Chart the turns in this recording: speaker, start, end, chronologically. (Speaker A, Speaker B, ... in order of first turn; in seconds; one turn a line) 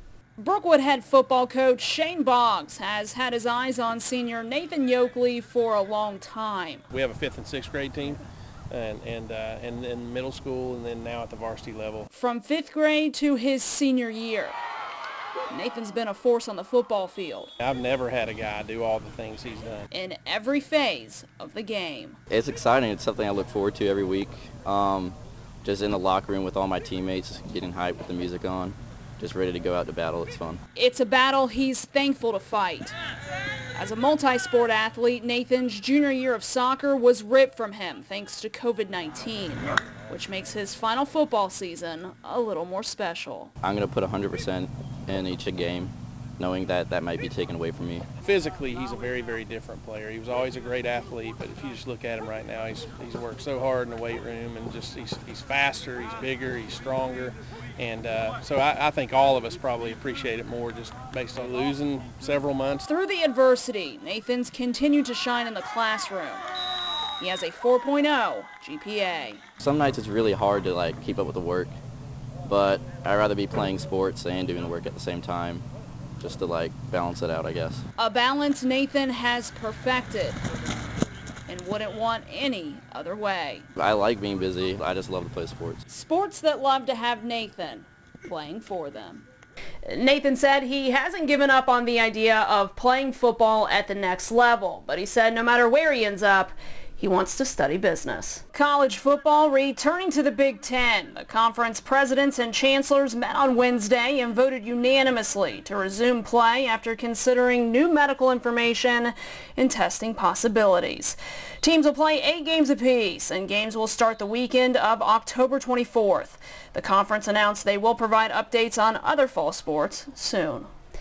Speaker A: 0.4-6.8
Speaker B: 6.9-12.1
Speaker A: 12.1-14.6
Speaker A: 15.5-17.5
Speaker B: 17.6-19.9
Speaker A: 19.9-22.2
Speaker C: 22.3-30.6
Speaker A: 30.8-33.0
Speaker A: 33.8-43.5
Speaker C: 43.6-48.1
Speaker B: 48.2-62.9
Speaker A: 62.9-66.5
Speaker A: 67.2-69.4
Speaker C: 69.6-71.7
Speaker C: 72.4-75.7
Speaker C: 76.2-77.8
Speaker A: 78.0-80.4
Speaker A: 81.5-83.7
Speaker C: 83.8-85.8
Speaker A: 85.9-89.2
Speaker A: 89.8-120.7